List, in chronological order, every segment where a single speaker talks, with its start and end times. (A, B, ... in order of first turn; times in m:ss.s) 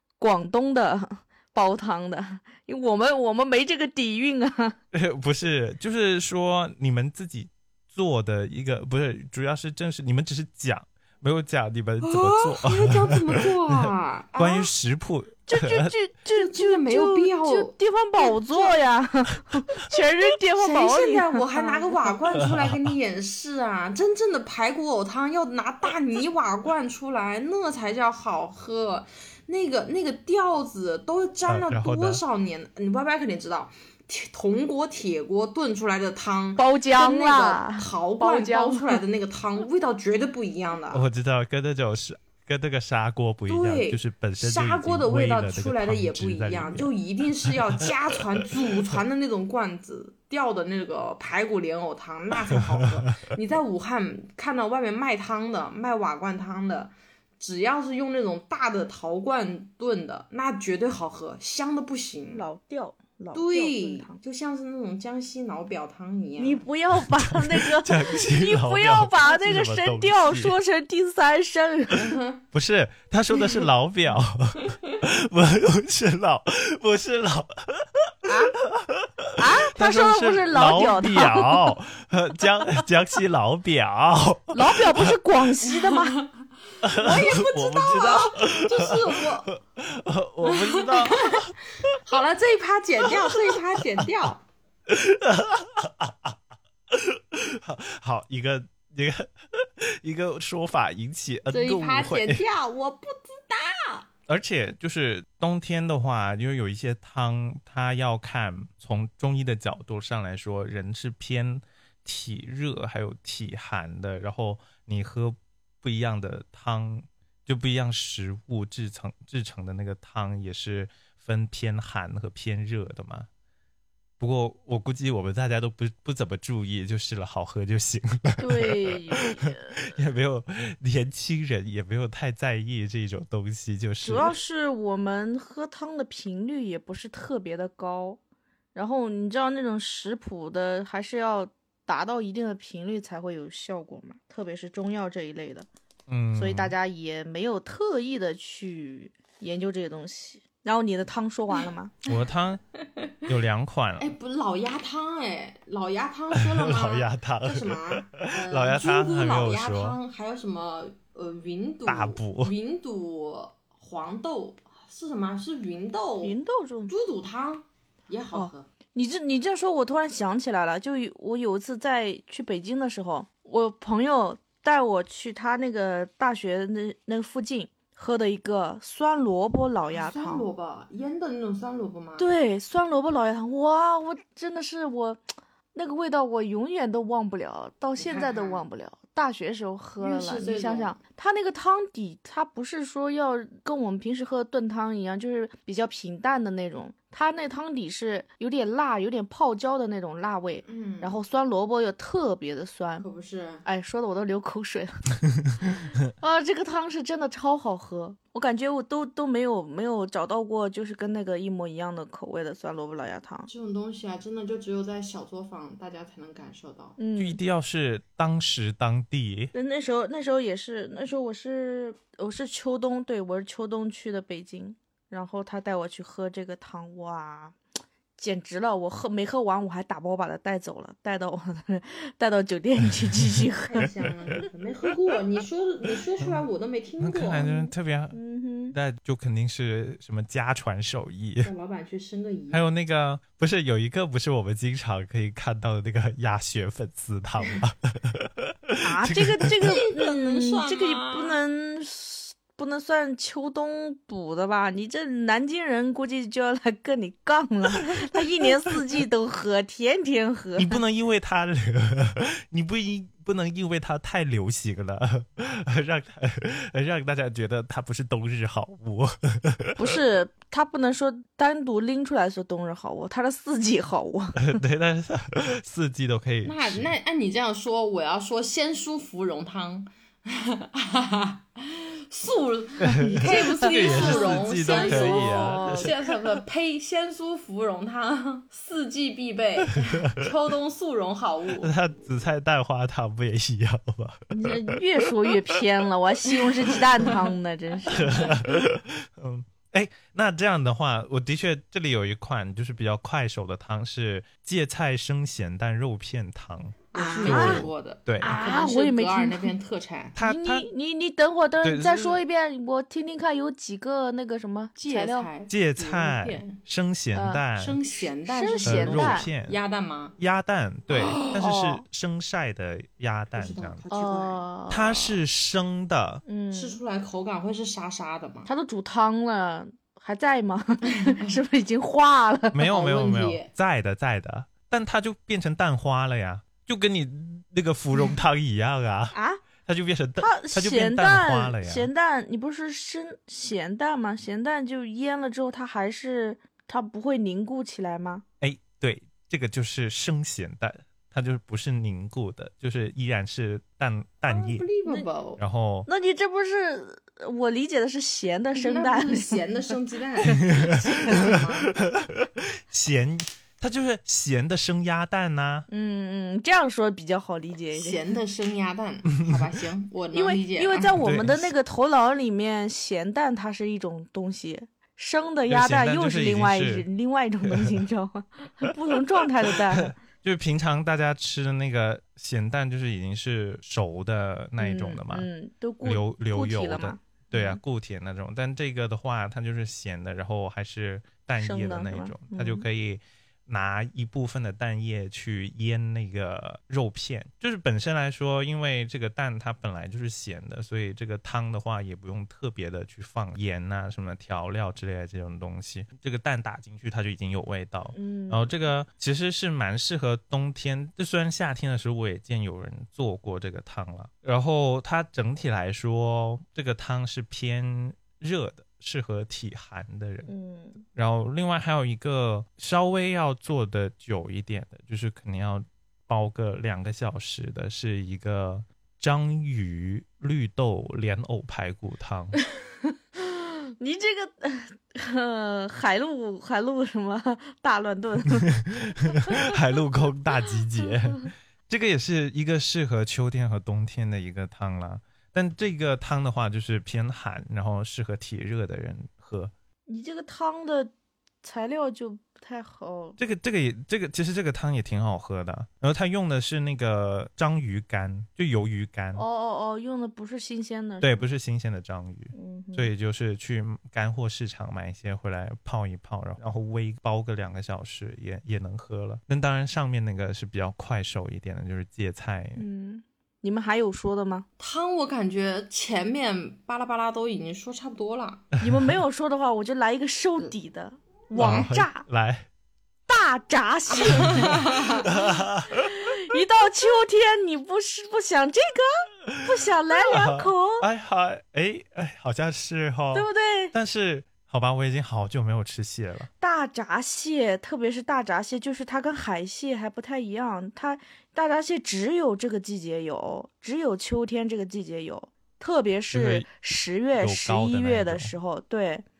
0:00.2-0:04.8 A
0:04.9-0:15.9 B
0:12.0-0:14.7 C
0:15.5-0:22.1 A
0:16.3-0:18.8 C
0:20.6-0:41.1 C
0:22.4-0:22.9 B
0:31.5-0:32.2 B
0:36.6-0:39.0 A
0:40.9-0:46.9 B
0:43.5-1:02.4 C
0:47.5-0:48.5 B
1:02.4-1:04.2 A
1:03.3-1:06.6 C
1:06.4-1:12.2 A
1:07.2-1:10.6 B
1:12.0-1:12.4 C
1:12.5-1:25.1 B
1:18.3-1:18.6 A
1:19.4-1:21.8 A
1:24.5-1:26.2 A
1:25.9-1:26.3 C
1:26.8-1:31.6 B
1:27.0-1:29.5 C
1:30.4-1:34.4 C
1:33.1-1:33.4 B
1:34.9-1:36.4 B
1:36.9-1:42.4 B
1:41.5-1:44.1 C
1:44.3-2:03.3 B
2:04.2-2:14.4 B
2:08.4-2:09.8 A
2:14.0-2:18.2 A
2:18.8-2:25.7 A
2:26.1-2:26.8 B
2:26.3-2:31.9 A
2:32.1-2:32.6 B
2:32.8-2:33.3 C
2:33.3-2:34.1 B
2:34.0-2:46.4 C
2:36.4-2:40.0 B
2:41.9-2:42.6 B
2:46.2-2:46.9 A
2:46.9-2:48.7 C
2:48.3-3:00.5 A
2:59.9-3:02.3 C
3:02.2-3:05.2 A
3:05.8-3:23.1 A
3:08.0-3:08.6 C
3:10.0-3:11.0 C
3:20.6-3:21.2 C
3:23.0-3:23.6 C
3:23.6-3:25.0 A
3:26.1-3:33.5 A
3:33.5-3:37.0 C
3:37.0-3:37.4 A
3:37.2-3:39.5 B
3:39.5-3:47.6 A
3:48.2-3:53.9 A
3:53.6-3:57.7 C
3:57.0-3:58.2 B
3:58.1-3:58.8 A
3:58.7-4:01.5 B
4:01.4-4:02.6 C
4:02.5-4:09.5 B
4:08.8-4:20.8 A
4:09.6-4:11.4 C
4:20.6-4:30.0 B
4:29.8-4:34.6 A
4:34.4-4:36.9 B
4:36.4-4:51.7 C
4:42.9-4:46.0 B
4:43.0-4:45.9 A
4:51.6-4:55.3 B
4:54.3-4:58.3 A
4:57.9-5:08.3 B
5:06.9-5:10.2 C
5:06.9-5:07.7 A
5:08.2-5:09.5 A
5:10.2-5:10.7 B
5:10.2-5:15.3 A
5:11.6-5:12.2 B
5:14.8-5:16.6 C
5:15.5-5:17.8 B
5:17.1-5:17.4 A
5:17.6-5:20.2 C
5:18.2-5:19.3 A
5:18.6-5:19.6 B
5:20.2-5:23.8 B
5:21.3-5:21.8 A
5:23.3-5:24.4 C
5:23.9-5:25.2 A
5:24.7-5:26.2 B
5:26.3-5:26.8 A
5:26.5-5:28.5 C
5:28.5-5:32.6 A
5:30.9-5:31.4 C
5:32.5-5:39.2 B
5:32.7-5:33.5 C
5:39.1-5:39.4 A
5:39.7-5:41.9 B
5:40.2-5:48.2 A
5:48.4-5:54.7 B
5:54.3-5:55.4 C
5:55.4-5:55.9 B
5:55.9-5:59.4 A
5:58.6-6:01.7 C
6:00.4-6:05.7 B
6:00.7-6:01.2 A
6:05.7-6:08.0 A
6:07.7-6:10.9 C
6:10.1-6:20.0 A
6:11.0-6:11.5 B
6:15.5-6:16.9 B
6:17.4-6:17.8 B
6:19.5-6:25.3 B
6:24.6-6:27.6 A
6:25.8-7:00.3 B
6:31.4-6:32.7 A
6:47.9-6:48.6 A
7:00.3-7:00.8 A
7:00.8-7:12.4 B
7:13.2-7:19.3 A
7:18.6-7:29.5 B
7:29.9-7:30.9 A
7:31.4-7:33.2 A
7:33.2-7:39.2 B
7:39.2-7:41.2 A
7:41.0-7:52.6 B
7:42.3-7:42.9 A
7:52.6-7:54.5 A
7:54.6-7:58.5 C
7:58.6-8:02.1 A
8:01.4-8:01.7 C
8:01.4-8:02.5 B
8:03.1-8:10.9 A
8:04.1-8:05.0 C
8:04.3-8:06.1 B
8:10.1-8:16.3 B
8:13.1-8:13.7 A
8:16.4-8:29.0 A
8:26.1-8:26.5 B
8:27.2-8:28.3 B